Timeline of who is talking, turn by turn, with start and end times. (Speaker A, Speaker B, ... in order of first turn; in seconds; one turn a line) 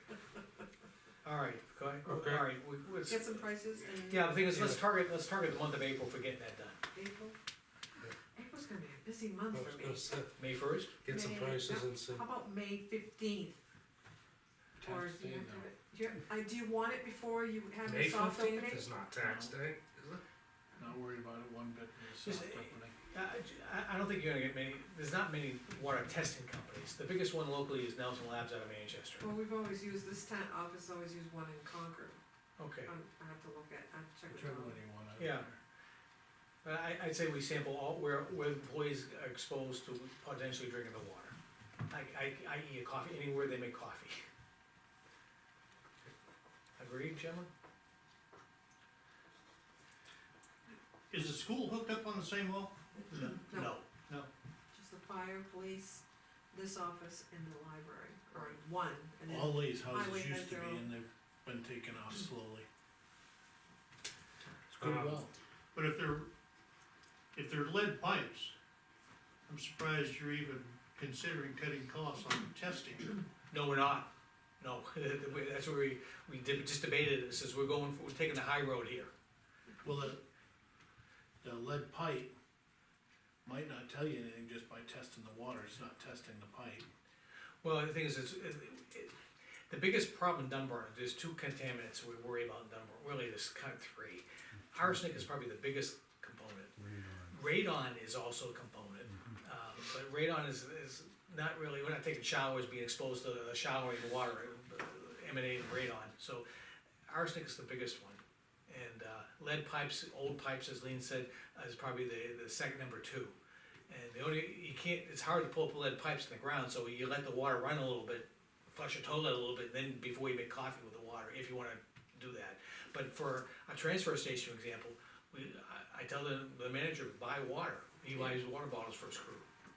Speaker A: 1.2-3.3
Speaker B: 2.0-2.5
Speaker C: 3.1-4.4
Speaker A: 4.1-6.8
Speaker B: 4.5-4.8
Speaker C: 6.9-7.4
Speaker C: 8.3-10.1
Speaker B: 9.5-10.3
Speaker A: 10.4-10.9
Speaker B: 11.0-12.2
Speaker C: 11.1-13.6
Speaker C: 14.8-18.9
Speaker D: 14.8-15.7
Speaker B: 17.9-20.2
Speaker D: 19.2-19.5
Speaker D: 20.8-22.9
Speaker A: 22.2-29.3
Speaker C: 29.2-32.2
Speaker A: 32.6-32.9
Speaker C: 32.9-34.8
Speaker D: 34.3-35.6
Speaker A: 35.2-35.5
Speaker A: 36.6-41.4
Speaker A: 41.9-44.2
Speaker A: 46.8-47.5
Speaker E: 51.1-53.3
Speaker A: 53.2-54.3
Speaker C: 54.7-60.9
Speaker D: 59.3-62.7
Speaker B: 64.7-65.3
Speaker D: 64.8-65.3
Speaker E: 65.7-66.3
Speaker E: 67.3-68.5
Speaker E: 69.5-73.2
Speaker A: 73.5-79.1
Speaker D: 79.8-80.2
Speaker D: 81.4-82.3
Speaker D: 83.4-86.9
Speaker A: 87.6-89.1
Speaker A: 89.7-96.8
Speaker D: 96.8-97.3
Speaker A: 97.3-106.5
Speaker A: 107.1-113.3
Speaker A: 113.9-129.5